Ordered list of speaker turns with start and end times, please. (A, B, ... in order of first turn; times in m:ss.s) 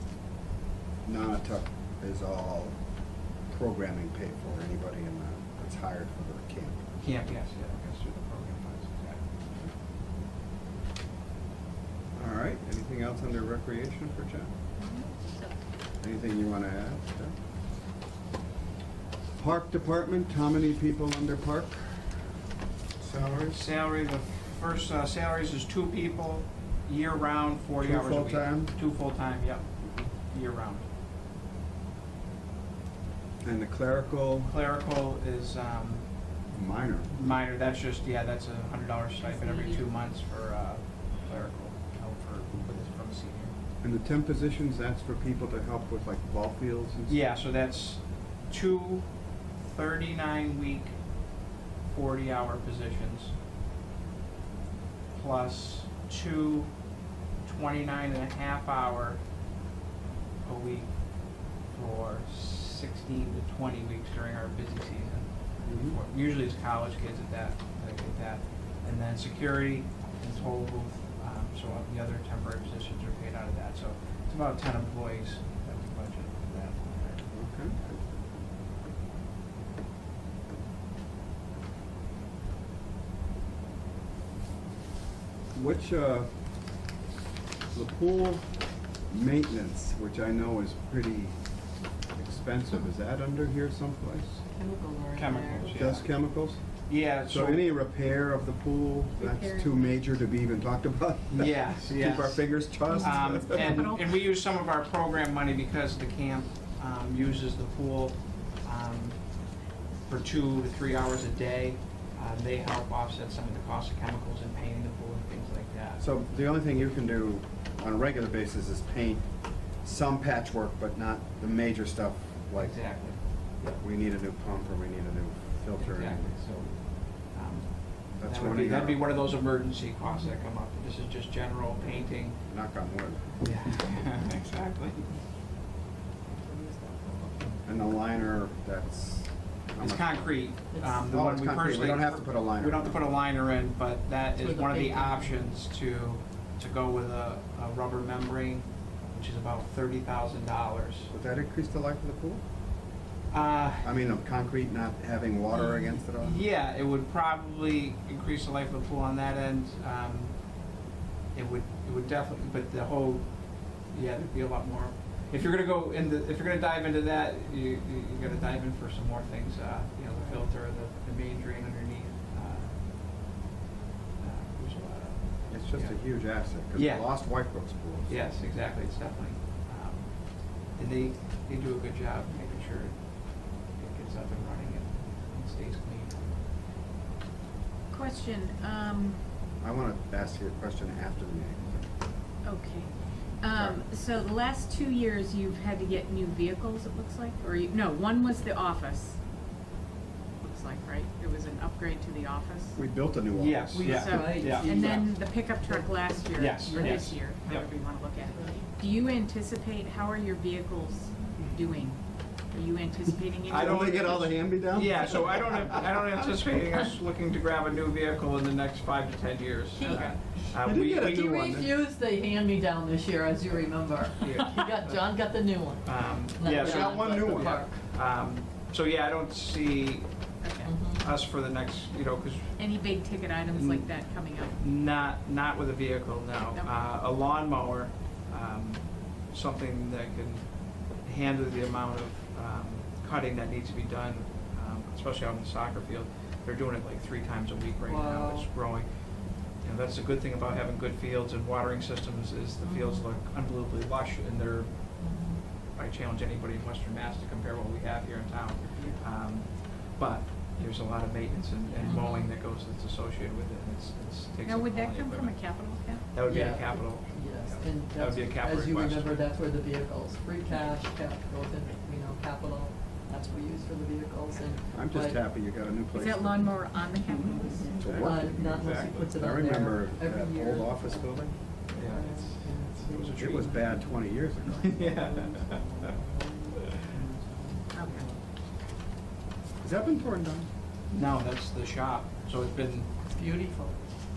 0:01.0-0:02.8 A
0:03.5-0:06.8 A
0:07.0-0:09.2 B
0:12.1-0:14.5 A
0:14.8-0:15.6 C
0:16.0-0:17.4 A
0:19.4-0:22.2 A
0:23.0-0:23.6 A
0:23.5-0:30.8 B
0:27.8-0:28.7 A
0:29.8-0:30.1 A
0:33.4-0:34.5 A
0:34.5-0:36.2 B
0:36.5-0:37.2 A
0:37.1-0:43.5 B
0:39.2-0:39.8 C
0:43.8-0:47.2 A
0:47.1-0:51.0 B
0:51.8-0:53.3 B
0:55.1-0:56.8 B
0:57.4-0:59.2 B
1:00.4-1:18.0 B
1:05.6-1:06.0 A
1:17.3-1:17.8 A
1:25.5-1:26.3 A
1:27.7-1:28.5 A
1:29.1-1:31.4 A
1:32.1-1:34.4 A
1:34.6-1:35.9 D
1:35.1-1:36.1 B
1:35.7-1:36.6 A
1:36.9-1:37.7 B
1:37.2-1:43.9 A
1:39.2-1:40.0 C
1:41.3-1:49.4 B
1:42.9-1:44.2 C
1:50.0-1:56.0 B
1:56.0-2:06.3 A
2:02.6-2:03.8 B
2:05.8-2:12.4 B
2:08.2-2:09.0 A
2:12.5-2:13.5 A
2:13.4-2:15.1 B
2:16.4-2:17.6 D
2:17.6-2:20.5 A
2:19.8-2:31.1 B
2:20.7-2:21.1 D
2:21.1-2:23.1 A
2:24.4-2:25.5 D
2:31.1-2:32.4 A
2:33.3-2:33.9 B
2:33.8-2:36.4 A
2:35.5-2:40.8 B
2:41.3-2:52.8 B
2:54.2-2:56.0 B
2:55.5-2:58.2 A
2:56.7-2:57.1 B
2:58.1-3:06.4 B
3:07.9-3:09.2 C
3:09.6-3:11.9 A
3:12.4-3:19.2 C
3:13.5-3:13.8 A
3:20.4-3:22.8 C
3:22.8-3:25.0 A
3:23.3-3:24.9 B
3:23.8-3:26.1 D
3:23.8-3:34.3 C
3:26.3-3:27.7 B
3:26.7-3:27.1 D
3:33.5-3:41.2 B
3:33.5-3:35.9 A
3:39.8-3:47.7 D
3:39.8-3:40.2 C
3:40.6-3:41.8 A
3:44.2-3:45.1 B
3:45.8-3:50.4 B
3:46.5-3:47.6 A
3:50.4-3:50.7 C
3:50.6-3:51.1 D
3:50.9-3:52.8 B
3:52.6-3:54.6 C
3:53.5-4:15.0 B
4:07.8-4:08.5 D
4:12.6-4:13.0 D
4:15.0-4:15.4 D
4:15.7-4:29.2 B
4:18.7-4:19.0 C
4:21.8-4:22.3 D
4:24.4-4:26.1 C
4:26.2-4:35.2 D
4:34.7-4:36.6 A
4:35.9-4:38.2 C
4:37.1-4:47.6 D
4:37.8-4:41.4 A
4:38.4-4:39.1 B
4:41.7-4:43.6 B
4:43.2-4:44.8 A
4:44.5-4:45.7 B
4:47.7-4:48.1 C
4:49.6-4:50.5 A
4:50.9-4:52.9 B
4:53.1-4:53.8 D